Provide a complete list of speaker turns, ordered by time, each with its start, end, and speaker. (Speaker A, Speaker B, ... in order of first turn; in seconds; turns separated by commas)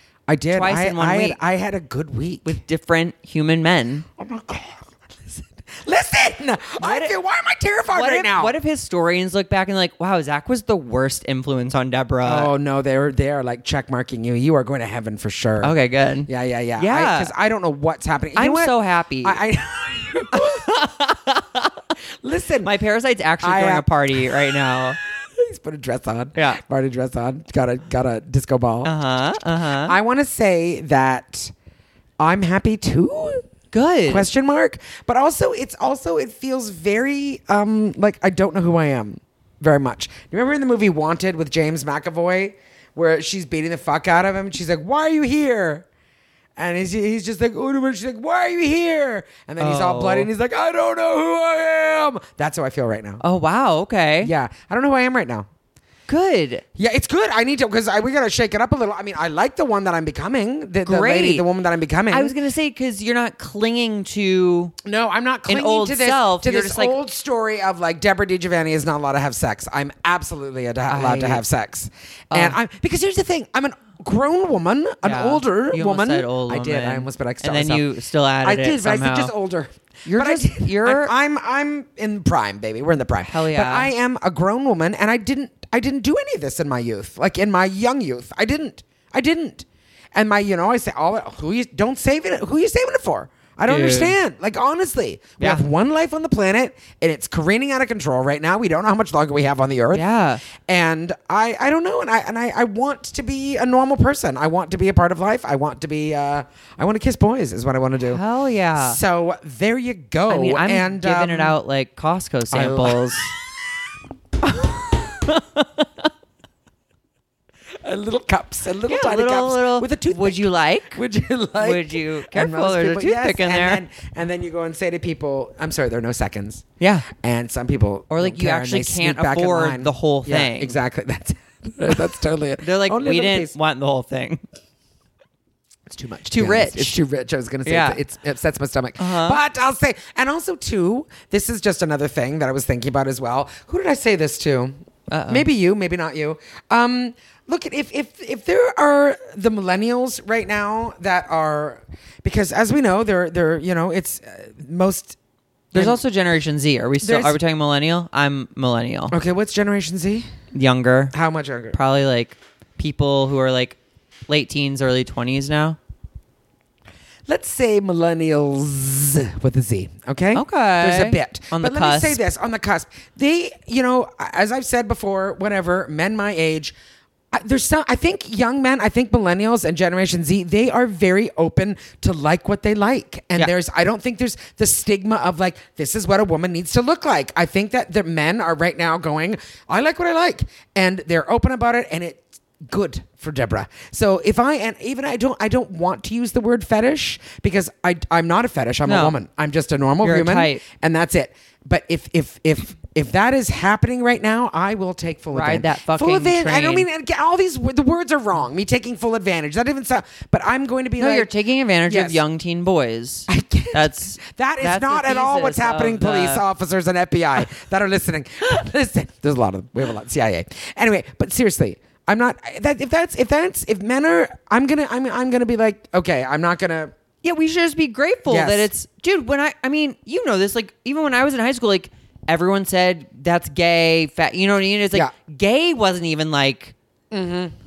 Speaker A: 0.3-2.6, Speaker B: 0.5-1.4, Speaker B: 2.4-4.0, Speaker A: 4.2-8.6, Speaker B: 6.8-7.1, Speaker B: 7.9-12.5, Speaker A: 12.2-15.7, Speaker B: 15.6-17.3, Speaker A: 16.3-20.7, Speaker B: 18.3-19.4, Speaker B: 20.3-21.8, Speaker A: 22.2-22.7, Speaker B: 22.6-25.0, Speaker A: 23.4-28.9, Speaker B: 26.3-26.6, Speaker B: 28.8-29.9, Speaker A: 29.8-31.5, Speaker A: 32.2-33.4, Speaker B: 33.7-34.3, Speaker A: 34.1-45.9, Speaker A: 46.6-53.2, Speaker B: 49.6-50.3, Speaker B: 53.2-54.3, Speaker A: 54.2-55.5, Speaker B: 56.1-56.6, Speaker A: 56.8-62.3, Speaker B: 60.8-61.4, Speaker B: 62.1-64.7, Speaker A: 64.8-77.9, Speaker B: 65.5-67.0, Speaker B: 70.9-71.4, Speaker B: 72.3-72.5, Speaker B: 75.0-79.3, Speaker A: 78.4-100.0, Speaker B: 80.0-81.1, Speaker B: 83.2-83.9, Speaker B: 93.7-94.2, Speaker B: 99.9-100.4, Speaker A: 100.6-108.2, Speaker B: 108.0-109.0, Speaker A: 108.8-111.6, Speaker B: 110.3-113.3, Speaker A: 112.5-113.2, Speaker B: 114.4-116.1, Speaker A: 117.8-133.5, Speaker B: 118.9-121.0, Speaker B: 121.6-123.8, Speaker B: 126.8-127.1, Speaker B: 128.1-130.8, Speaker B: 132.6-134.4, Speaker A: 135.9-144.7, Speaker B: 136.3-137.0, Speaker B: 137.7-138.0, Speaker B: 139.0-139.4, Speaker B: 145.1-145.5, Speaker A: 145.3-155.2, Speaker B: 155.7-159.2, Speaker A: 155.7-156.0, Speaker A: 157.0-157.4, Speaker A: 159.1-160.2, Speaker B: 160.5-161.1, Speaker A: 161.1-161.8, Speaker B: 161.7-165.8, Speaker A: 167.3-176.7, Speaker B: 170.3-172.2, Speaker A: 177.3-211.3, Speaker B: 198.8-199.2, Speaker B: 200.0-200.6, Speaker B: 205.3-206.9, Speaker B: 211.0-216.4, Speaker A: 211.8-212.2, Speaker A: 213.3-226.9, Speaker B: 227.2-236.7, Speaker A: 228.3-228.7, Speaker A: 237.1-237.5